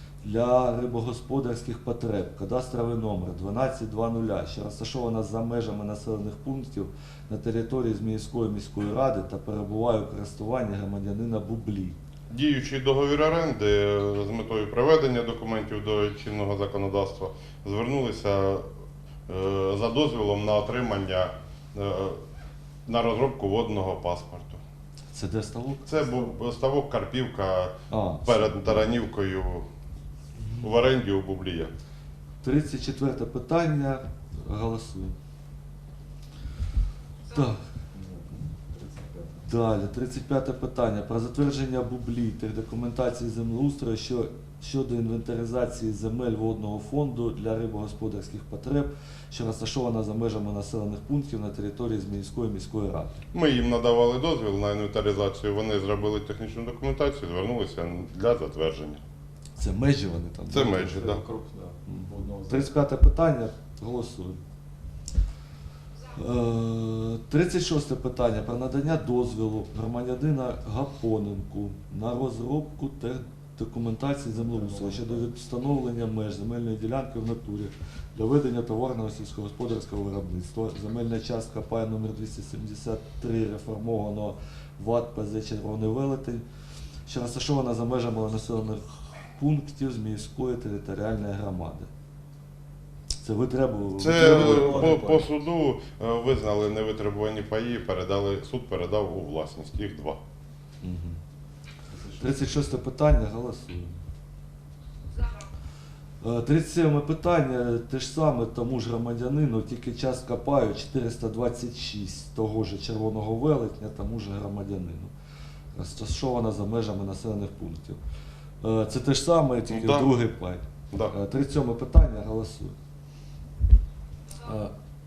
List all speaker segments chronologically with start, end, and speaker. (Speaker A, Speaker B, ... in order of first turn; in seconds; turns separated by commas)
Speaker A: 0.2-12.0, Speaker B: 12.3-18.7, Speaker B: 19.3-22.2, Speaker B: 22.9-24.6, Speaker A: 25.1-25.9, Speaker B: 25.9-27.7, Speaker A: 27.9-28.9, Speaker B: 28.2-29.7, Speaker A: 30.4-30.7, Speaker B: 30.6-31.7, Speaker A: 32.4-35.1, Speaker A: 37.3-37.6, Speaker C: 37.9-39.5, Speaker A: 39.5-53.1, Speaker B: 53.3-59.0, Speaker A: 59.6-61.0, Speaker B: 60.5-61.2, Speaker C: 60.7-62.7, Speaker A: 61.9-64.4, Speaker A: 66.1-86.4, Speaker C: 74.3-75.2, Speaker A: 87.1-88.8, Speaker A: 89.4-91.9, Speaker A: 93.2-95.0, Speaker B: 94.0-100.2, Speaker C: 94.1-95.3, Speaker A: 100.8-101.2, Speaker C: 101.9-102.5, Speaker A: 102.2-104.0, Speaker A: 106.2-115.1, Speaker A: 115.7-118.0, Speaker A: 118.6-122.8, Speaker B: 119.7-120.1, Speaker A: 124.4-124.7